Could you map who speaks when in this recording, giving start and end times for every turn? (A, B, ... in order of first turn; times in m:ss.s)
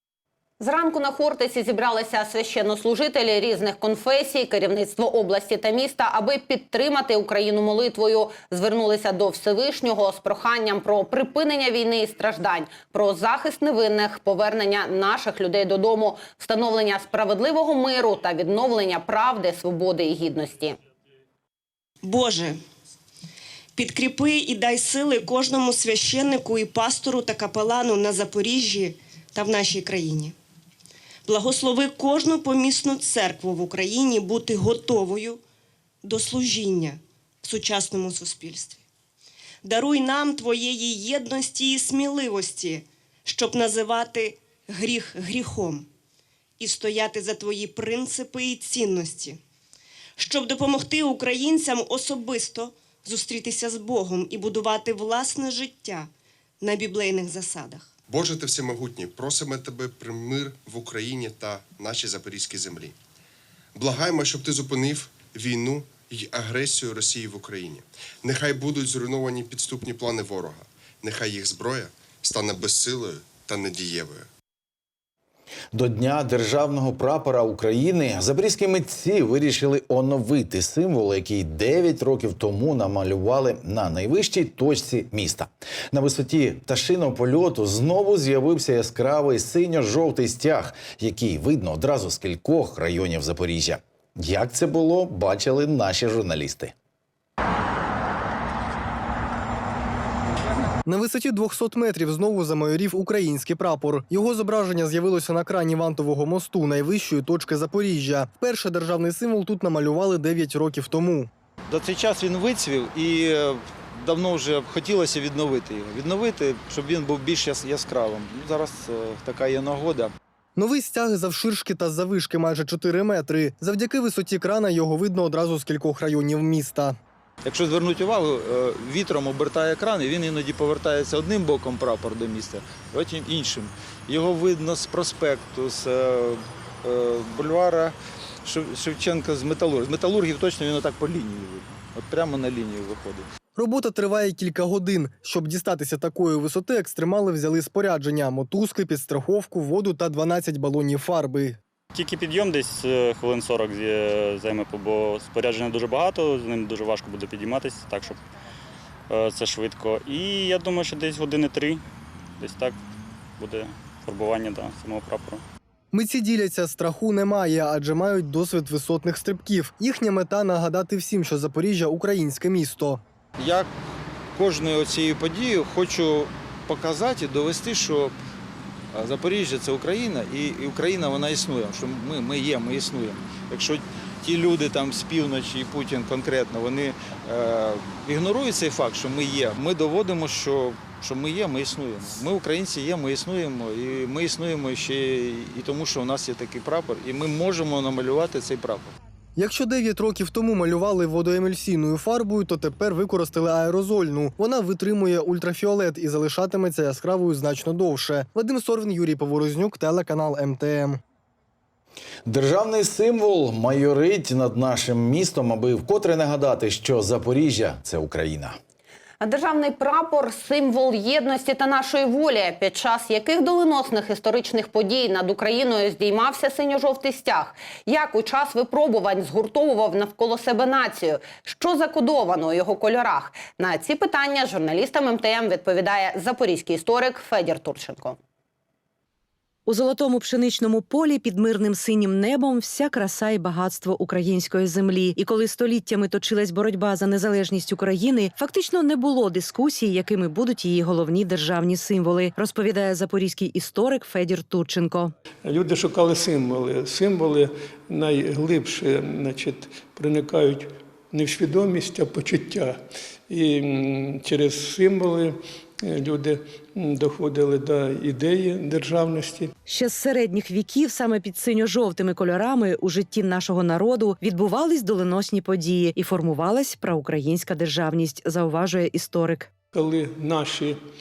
0:00.6-0:20.8 A
0:22.0-0:22.6 B
0:23.8-0:30.3 B
0:31.3-0:35.4 B
0:36.0-0:38.8 B
0:39.6-0:45.9 B
0:46.6-0:49.4 B
0:50.2-0:56.1 B
0:56.6-0:57.9 B
0:58.1-1:03.0 C
1:03.8-1:14.3 C
1:15.7-1:36.7 D
1:40.8-1:51.3 E
1:51.7-2:00.1 F
2:00.6-2:07.0 E
2:07.4-2:17.9 F
2:18.4-2:23.2 F
2:23.6-2:31.6 E
2:31.9-2:38.2 G
2:39.1-2:41.8 G
2:42.4-2:42.8 G
2:43.4-2:45.4 G
2:45.9-2:53.0 E
2:53.4-2:53.7 F
2:54.4-2:58.1 F
2:58.9-3:18.9 F
3:19.4-3:31.0 E
3:32.2-3:38.6 D
3:39.2-3:58.2 A
3:59.7-4:15.1 H
4:15.4-4:29.5 I
4:29.7-4:39.5 H
4:39.7-4:40.8 I